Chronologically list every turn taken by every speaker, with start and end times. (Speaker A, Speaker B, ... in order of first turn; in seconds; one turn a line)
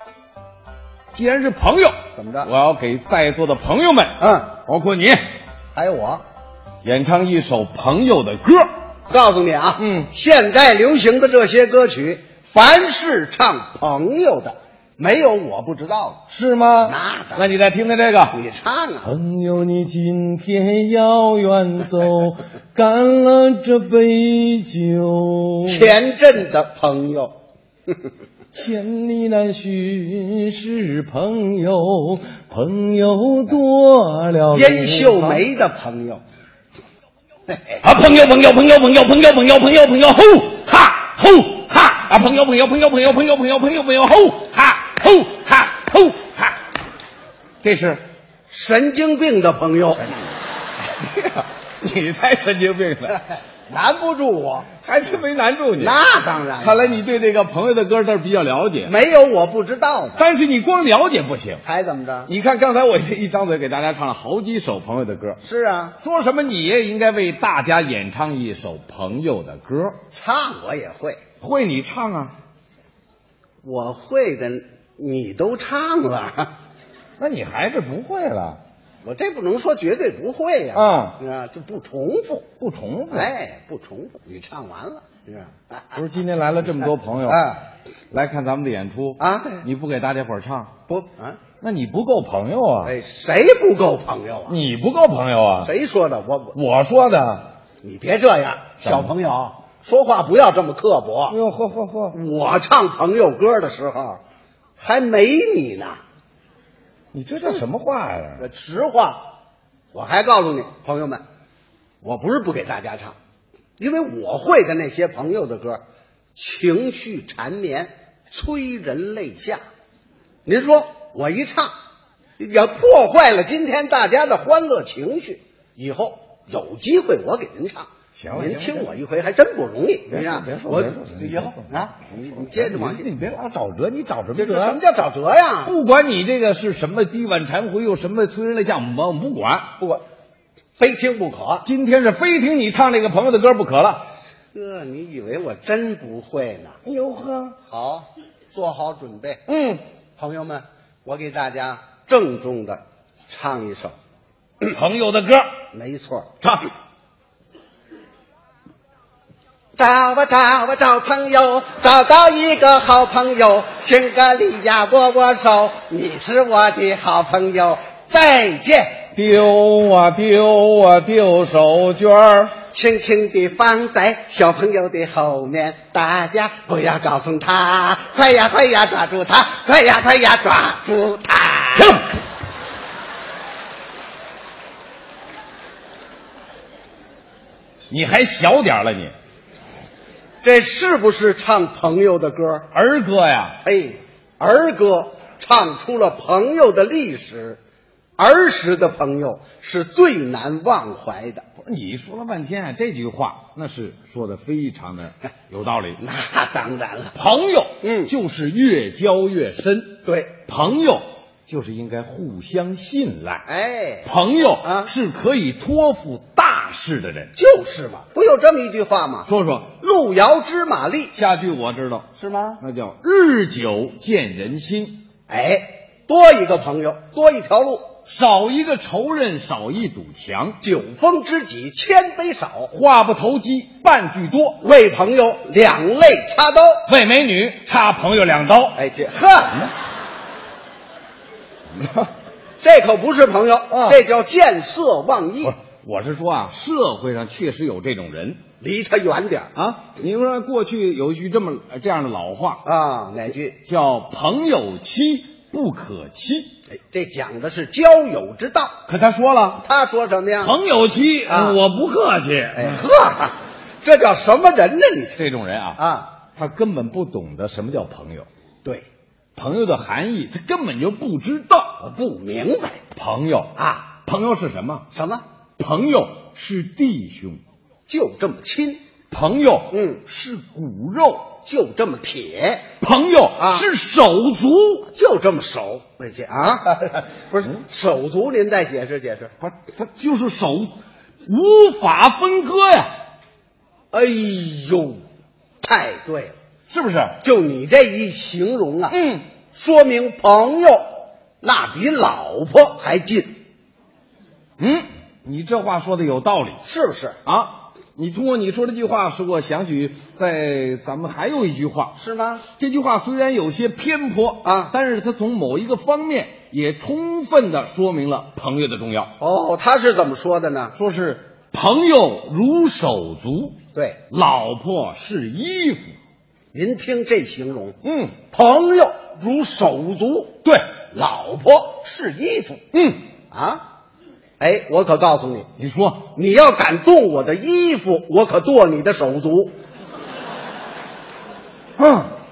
Speaker A: 1.1-5.2
Speaker B: 2.1-2.5
Speaker B: 4.2-4.5
Speaker B: 5.7-6.2
Speaker A: 6.8-8.7
Speaker B: 9.1-16.2
Speaker A: 9.8-10.1
Speaker A: 16.3-18.4
Speaker B: 16.8-17.5
Speaker B: 18.3-19.1
Speaker A: 19.0-25.9
Speaker B: 25.6-27.3
Speaker A: 28.5-35.4
Speaker B: 34.5-36.2
Speaker A: 37.8-46.5
Speaker A: 47.6-48.0
Speaker B: 48.5-50.2
Speaker A: 50.9-53.2
Speaker B: 53.7-54.7
Speaker A: 54.8-56.0
Speaker B: 55.8-56.9
Speaker A: 56.6-58.9
Speaker B: 58.8-60.2
Speaker A: 60.2-61.6
Speaker B: 61.6-62.3
Speaker A: 62.2-65.4
Speaker B: 65.4-66.0
Speaker A: 66.0-70.0
Speaker B: 70.1-71.2
Speaker A: 71.4-72.3
Speaker B: 73.6-76.5
Speaker A: 77.2-78.6
Speaker B: 79.0-82.5
Speaker A: 80.7-81.2
Speaker A: 82.6-83.3
Speaker B: 83.1-86.0
Speaker A: 85.9-87.5
Speaker B: 87.3-87.6
Speaker A: 88.1-90.7
Speaker B: 89.2-89.7
Speaker B: 90.9-91.4
Speaker A: 91.6-92.9
Speaker B: 92.8-94.6
Speaker A: 94.5-95.7
Speaker B: 95.6-96.6
Speaker A: 96.5-97.5
Speaker B: 97.8-101.4
Speaker A: 98.8-99.1
Speaker A: 101.3-102.2
Speaker B: 102.1-104.2
Speaker B: 104.8-106.0
Speaker A: 107.1-108.4
Speaker B: 108.4-109.2
Speaker B: 109.9-111.2
Speaker B: 112.0-113.2
Speaker B: 113.8-115.8
Speaker B: 116.3-119.6
Speaker B: 120.4-121.7
Speaker B: 122.4-133.1
Speaker A: 128.1-128.9
Speaker A: 130.1-134.8
Speaker B: 134.3-135.8
Speaker A: 135.6-139.7
Speaker B: 140.8-141.7
Speaker A: 141.6-144.0
Speaker B: 144.5-146.8
Speaker A: 146.8-147.6
Speaker B: 147.6-149.4
Speaker A: 149.5-149.8
Speaker B: 150.2-153.9
Speaker A: 154.6-155.5
Speaker B: 155.7-156.3
Speaker A: 156.4-156.7
Speaker B: 159.8-169.0
Speaker A: 169.1-172.5
Speaker B: 172.7-182.0
Speaker A: 181.7-182.1
Speaker A: 187.9-189.1
Speaker B: 190.4-192.7
Speaker A: 192.7-193.6
Speaker B: 193.6-197.6
Speaker B: 198.2-201.4
Speaker A: 201.6-206.0
Speaker B: 206.0-207.1
Speaker A: 207.1-213.4
Speaker B: 207.8-208.1
Speaker B: 210.0-210.3
Speaker B: 213.4-214.1
Speaker A: 214.0-217.3
Speaker B: 214.6-214.9
Speaker B: 217.3-219.3
Speaker A: 219.2-219.7
Speaker B: 219.8-221.1
Speaker A: 221.1-222.1
Speaker B: 222.2-222.6
Speaker A: 222.6-225.0
Speaker B: 225.3-227.9
Speaker A: 228.1-230.6
Speaker B: 230.6-232.7
Speaker A: 232.7-234.6
Speaker B: 234.6-236.8
Speaker A: 236.9-238.8
Speaker B: 238.8-239.7
Speaker A: 241.7-242.1
Speaker B: 242.6-245.6
Speaker A: 243.7-244.0
Speaker A: 245.4-248.4
Speaker B: 248.6-249.6
Speaker A: 249.6-252.6
Speaker B: 252.6-253.6
Speaker A: 253.6-256.5
Speaker B: 256.9-258.7
Speaker A: 258.9-259.6
Speaker B: 259.6-260.6
Speaker A: 260.4-262.9
Speaker B: 261.3-261.6
Speaker B: 262.6-265.2
Speaker A: 265.1-265.8
Speaker B: 265.8-266.1
Speaker A: 266.3-268.3
Speaker A: 269.4-271.8
Speaker B: 271.8-272.8
Speaker A: 272.9-274.9
Speaker B: 274.9-275.2
Speaker A: 275.6-277.4
Speaker B: 277.9-278.8
Speaker A: 279.1-281.3
Speaker B: 279.7-280.0
Speaker B: 281.4-282.6
Speaker A: 282.8-284.9
Speaker B: 283.4-283.7
Speaker B: 284.9-289.3
Speaker A: 289.4-290.7
Speaker A: 291.2-292.9
Speaker B: 293.9-295.0
Speaker B: 295.6-296.3
Speaker A: 296.7-297.2
Speaker B: 297.2-299.0
Speaker A: 298.9-299.2
Speaker B: 299.5-300.9
Speaker B: 301.4-303.3
Speaker A: 304.6-306.6
Speaker B: 306.6-307.2
Speaker A: 307.2-311.9
Speaker B: 311.9-312.4
Speaker A: 312.6-319.1
Speaker B: 314.4-314.7
Speaker B: 319.2-320.7
Speaker A: 320.7-323.6
Speaker B: 323.7-324.0
Speaker A: 324.1-325.9
Speaker B: 326.5-327.8
Speaker A: 327.8-328.2
Speaker B: 328.3-330.4
Speaker B: 330.9-332.6
Speaker A: 332.7-333.1
Speaker B: 333.3-333.6
Speaker B: 334.4-335.5
Speaker A: 335.6-336.1
Speaker B: 336.1-339.5
Speaker A: 341.8-342.1